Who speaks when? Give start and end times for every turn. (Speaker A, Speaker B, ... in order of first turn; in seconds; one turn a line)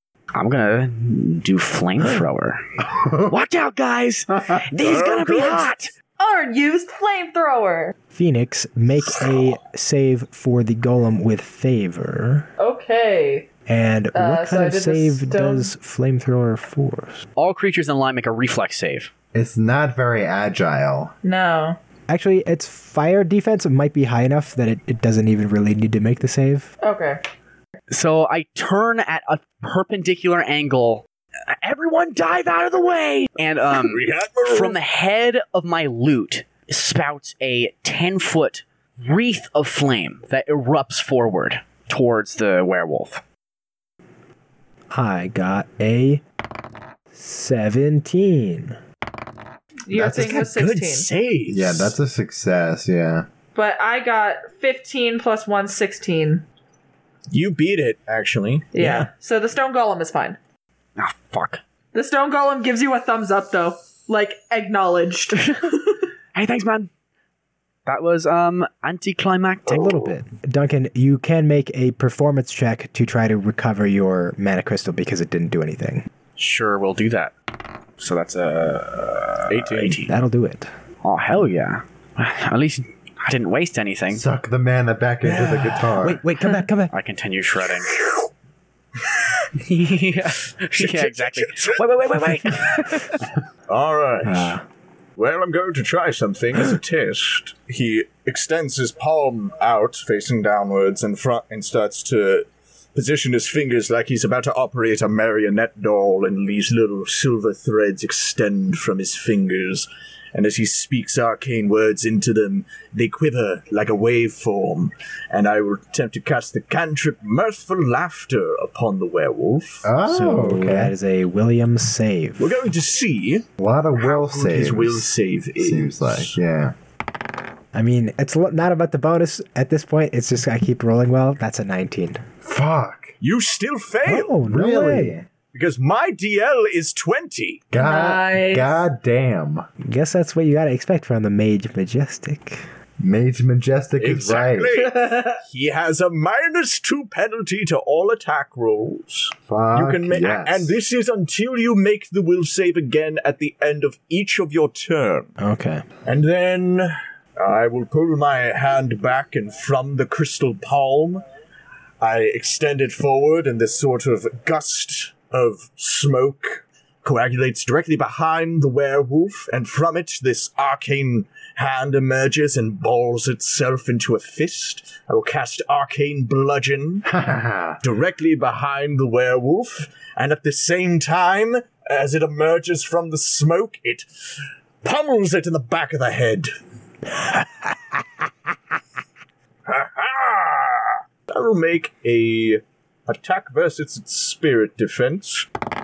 Speaker A: 0.3-2.6
Speaker A: 3.2-5.9
Speaker B: 4.8-5.7
Speaker C: 6.2-7.9
Speaker D: 8.1-12.5
Speaker C: 12.6-13.4
Speaker D: 13.7-17.2
Speaker C: 14.1-15.7
Speaker A: 17.4-19.1
Speaker E: 19.3-21.1
Speaker C: 21.2-21.8
Speaker D: 22.1-26.7
Speaker C: 26.8-27.2
Speaker A: 27.9-43.2
Speaker B: 33.7-34.8
Speaker D: 44.9-46.2
Speaker D: 47.1-48.8
Speaker C: 49.9-51.1
Speaker E: 49.9-50.5
Speaker B: 50.1-52.0
Speaker E: 51.5-53.3
Speaker C: 53.5-56.4
Speaker B: 57.3-59.1
Speaker C: 58.7-60.4
Speaker A: 61.0-61.6
Speaker C: 61.9-66.1
Speaker A: 66.3-66.9
Speaker A: 67.8-70.1
Speaker D: 69.7-76.0
Speaker A: 76.4-77.3
Speaker A: 78.0-80.2
Speaker B: 79.5-80.0
Speaker D: 80.1-80.7
Speaker A: 81.0-84.2
Speaker E: 84.1-86.2
Speaker B: 85.3-85.8
Speaker D: 86.0-86.9
Speaker A: 86.9-87.9
Speaker B: 87.6-88.3
Speaker B: 89.0-89.5
Speaker A: 89.6-93.1
Speaker B: 90.7-93.2
Speaker B: 93.7-94.5
Speaker D: 94.2-94.6
Speaker B: 95.2-119.8
Speaker E: 119.8-120.9
Speaker D: 120.0-122.6
Speaker B: 122.4-123.4
Speaker E: 123.6-126.7
Speaker B: 124.0-126.4
Speaker D: 127.7-132.2
Speaker E: 132.4-133.2
Speaker B: 133.2-134.3
Speaker D: 134.0-135.2
Speaker E: 134.4-135.3
Speaker B: 135.5-137.7
Speaker E: 137.7-139.7
Speaker C: 137.8-138.8
Speaker D: 139.8-142.7
Speaker E: 143.0-144.7
Speaker B: 144.0-155.3
Speaker C: 144.7-145.4
Speaker E: 149.5-150.8
Speaker D: 155.4-155.8
Speaker B: 156.0-161.2
Speaker B: 162.0-177.0
Speaker E: 177.1-177.8
Speaker B: 177.8-184.1
Speaker B: 184.8-186.5
Speaker B: 189.7-195.5